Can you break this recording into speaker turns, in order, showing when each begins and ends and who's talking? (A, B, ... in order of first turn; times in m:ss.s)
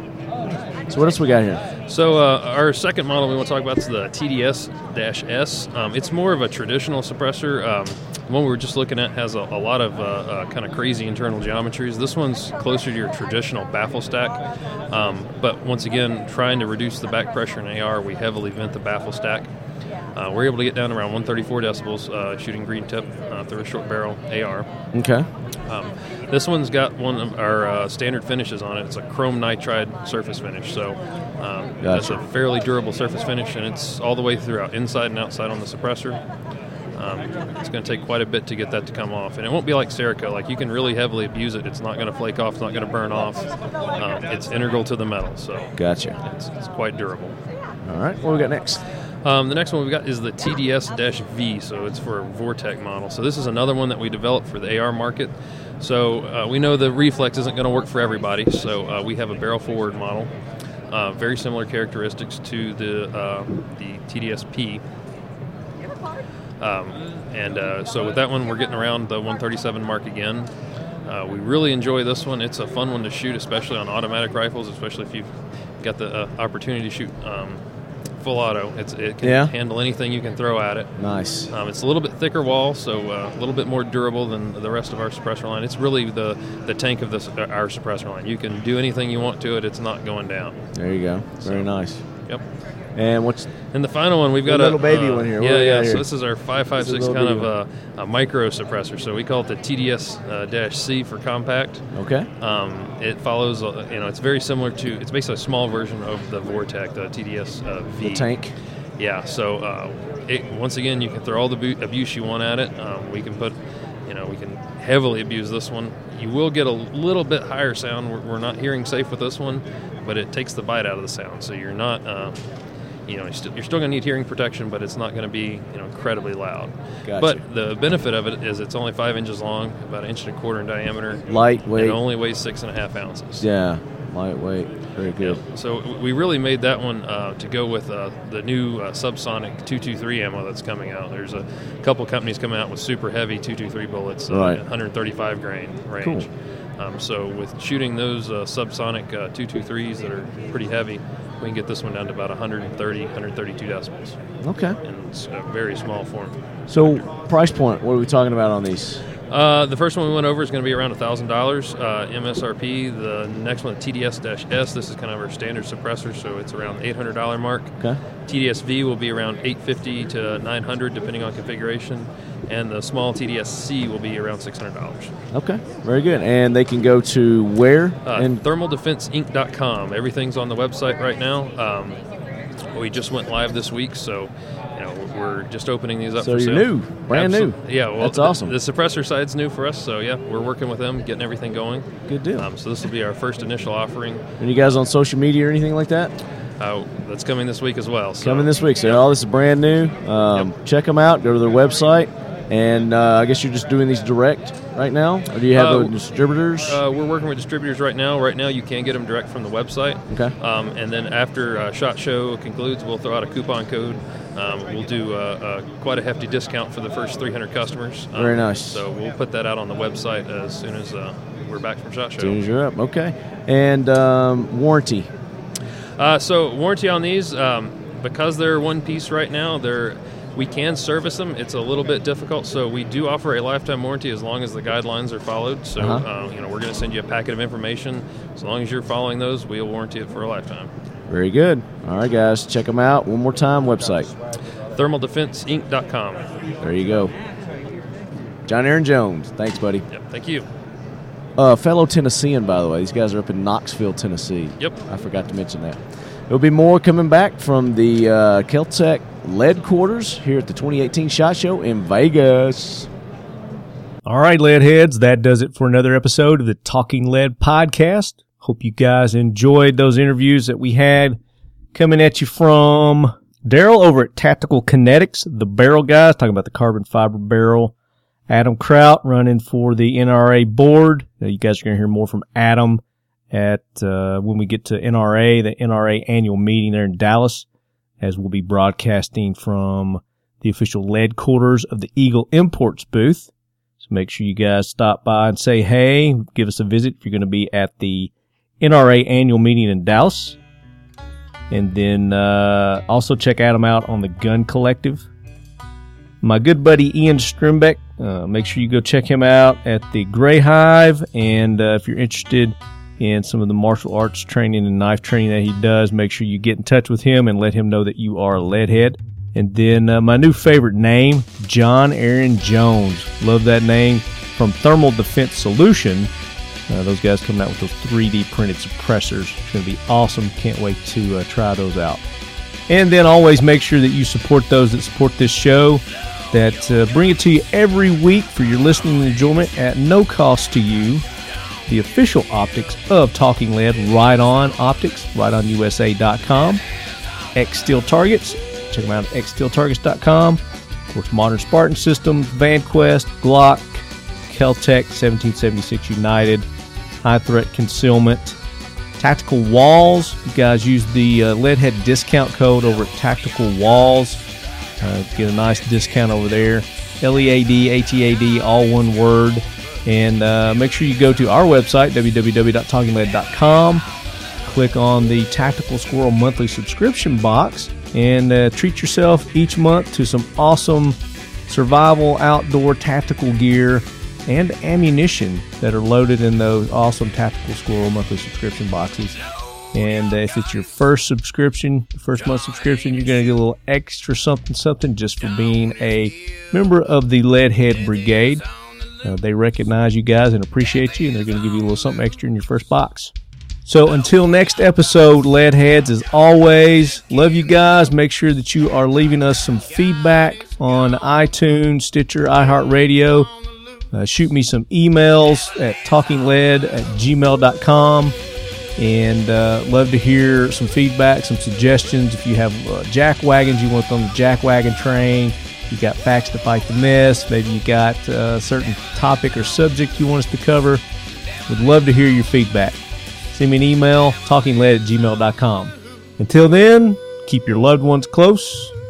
0:00.9-0:01.6 A
0:01.9-0:19.5 B
0:20.2-0:24.7 B
0:24.9-0:25.3 A
0:25.7-0:36.2 B
0:31.8-0:32.2 A
0:37.0-0:47.4 B
0:45.8-0:46.2 A
0:47.8-0:48.8 A
0:49.2-1:00.3 B
1:00.9-1:04.8 B
1:06.6-1:10.5 B
1:11.0-1:17.6 B
1:18.2-1:20.9 B
1:19.2-1:19.5 A
1:21.0-1:21.5 A
1:21.5-1:30.6 B
1:30.7-1:32.0 A
1:33.0-1:33.5 A
1:33.7-1:41.8 B
1:34.4-1:36.0 A
1:36.8-1:37.5 A
1:41.9-1:42.3 A
1:42.4-1:48.3 B
1:48.0-1:48.5 A
1:49.0-1:53.6 B
1:54.1-2:02.4 B
2:03.1-2:11.2 B
2:07.0-2:07.4 A
2:11.3-2:12.0 A
2:11.7-2:13.4 B
2:13.4-2:15.4 A
2:15.2-2:26.3 B
2:24.3-2:24.6 A
2:26.0-2:26.3 A
2:26.8-2:34.2 B
2:34.4-2:34.8 A
2:34.8-2:36.8 B
2:36.7-2:39.0 A
2:39.3-2:47.8 B
2:48.3-2:55.1 B
2:55.3-2:58.4 A
2:58.0-3:02.0 B
3:02.7-3:14.2 B
3:06.2-3:08.5 A
3:12.1-3:12.5 A
3:14.4-3:16.1 A
3:16.6-3:19.0 B
3:18.2-3:26.8 A
3:25.5-3:25.9 B
3:26.6-3:42.4 B
3:38.1-3:38.8 A
3:42.2-3:45.1 A
3:46.0-4:00.7 B
3:55.8-3:56.0 A
4:01.1-4:04.1 A
4:04.7-4:06.3 B
4:06.6-4:07.1 A
4:08.5-4:09.8 A
4:09.9-4:10.4 B
4:11.4-4:22.9 A
4:24.0-4:31.2 C
4:31.7-4:37.7 C
4:38.3-4:47.4 C
4:48.0-4:53.3 C
4:53.8-5:00.4 C
5:01.5-5:05.0 C
5:06.2-5:26.1 C
5:26.7-5:32.0 C
5:32.7-5:41.0 C
5:41.7-5:46.6 C
5:47.3-5:56.5 C
5:57.0-5:58.4 C
5:59.0-6:04.3 C
6:04.8-6:13.8 C
6:14.4-6:29.2 C
6:29.7-6:38.4 C
6:39.0-6:43.1 C
6:43.6-6:53.3 C
6:53.9-6:58.2 C
6:58.8-7:10.8 C
7:11.5-7:12.8 C
7:13.3-7:18.7 C